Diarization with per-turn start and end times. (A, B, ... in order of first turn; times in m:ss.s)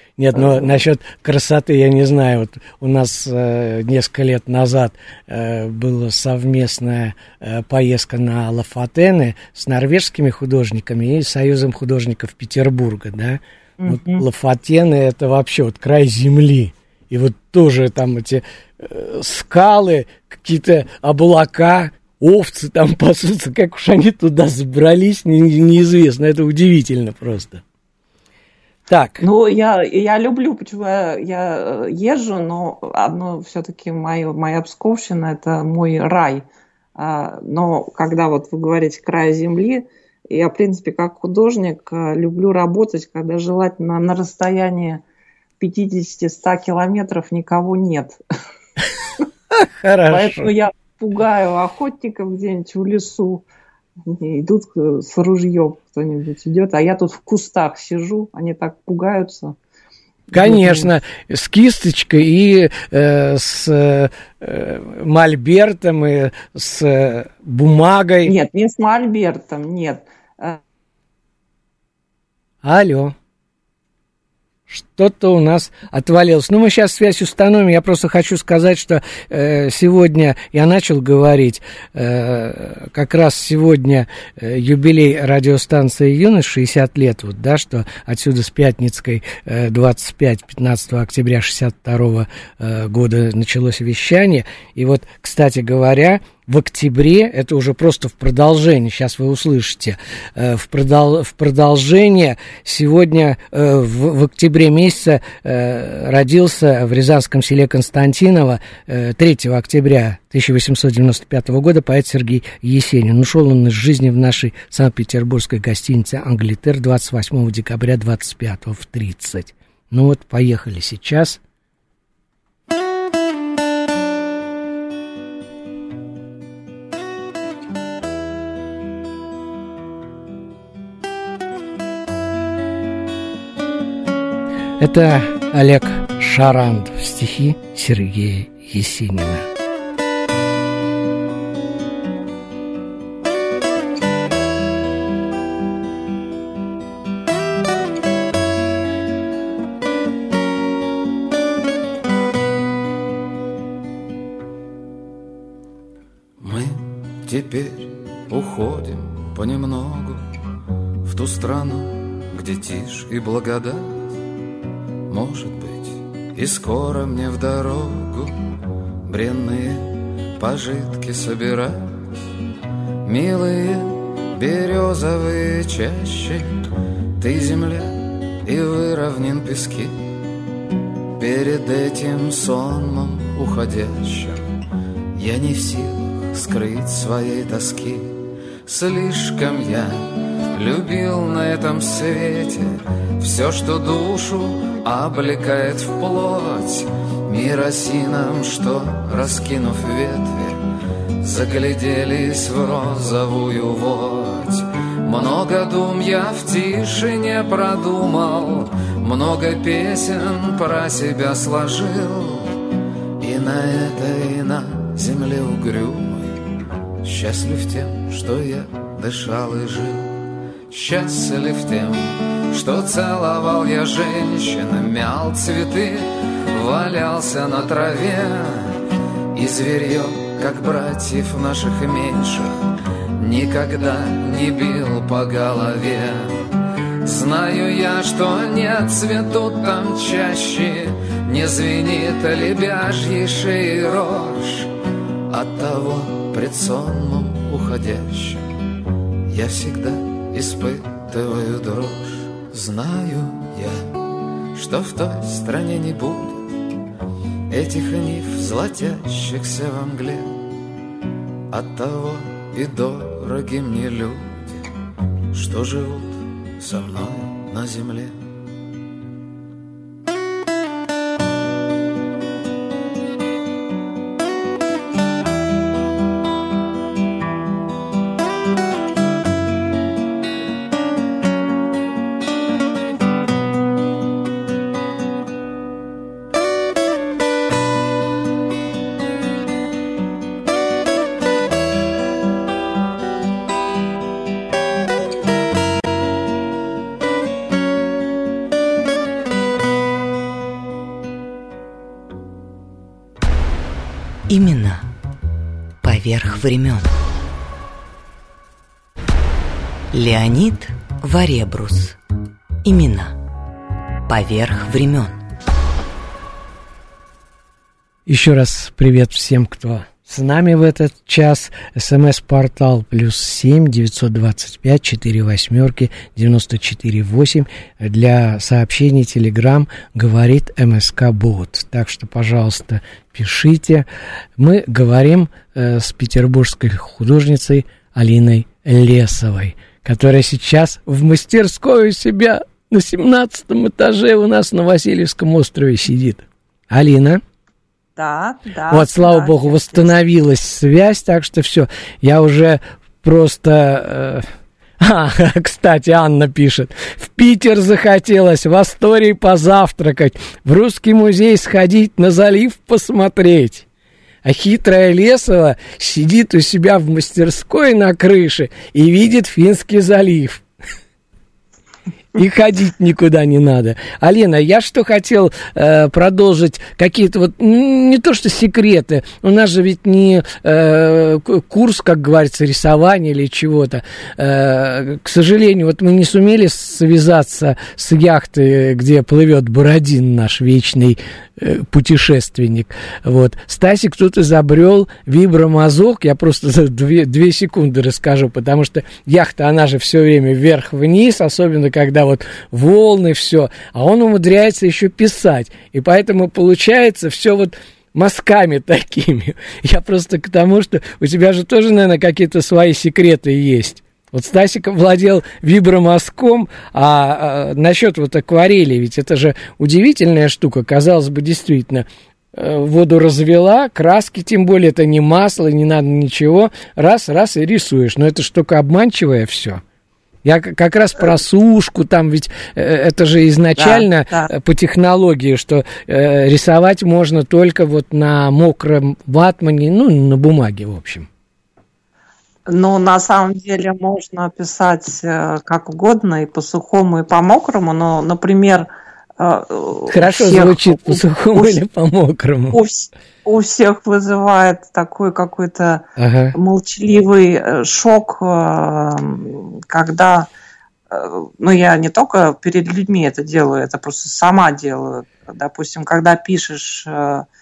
0:00.2-0:27.6 A
0:00.3-0:00.8 B
0:13.8-0:14.2 B
0:28.9-0:29.2 A
0:29.2-0:45.0 B
0:45.6-0:48.2 B
0:49.5-0:50.5 A
0:50.1-0:53.4 B
0:54.1-0:59.6 B
1:00.3-1:00.9 B
1:00.3-1:08.4 A
1:08.2-1:10.6 B
1:12.6-1:13.2 A
1:14.7-2:01.4 A
2:14.8-2:19.5 A
2:36.4-2:40.3 C
2:41.0-2:44.1 C
2:45.1-2:48.4 C
2:49.0-2:52.1 C
2:53.0-2:56.6 C
2:57.2-3:00.1 C
3:01.2-3:04.4 C
3:05.2-3:20.6 C
3:21.2-3:32.6 C
3:33.2-3:36.5 C
3:37.0-3:52.6 C
3:53.2-4:04.7 C
4:05.3-4:08.5 C
4:09.3-4:14.0 C
4:14.5-4:16.5 C
4:17.5-4:20.5 C
4:21.5-4:24.6 C
4:25.3-4:28.2 C
5:04.3-5:04.9 D
5:05.8-5:06.9 D
5:09.9-5:12.0 D
5:12.6-5:13.2 D
5:14.1-5:15.2 D
5:18.1-5:47.2 A
5:48.0-5:50.0 B
5:48.7-5:54.3 A
5:54.8-6:03.7 A
6:04.2-6:10.4 A
6:12.2-7:09.6 A
7:10.2-7:21.1 A
7:13.6-7:14.3 B
7:22.5-7:31.6 B
7:29.9-7:32.6 A
7:32.5-7:40.3 B
7:36.0-7:36.4 A
7:40.9-7:47.3 B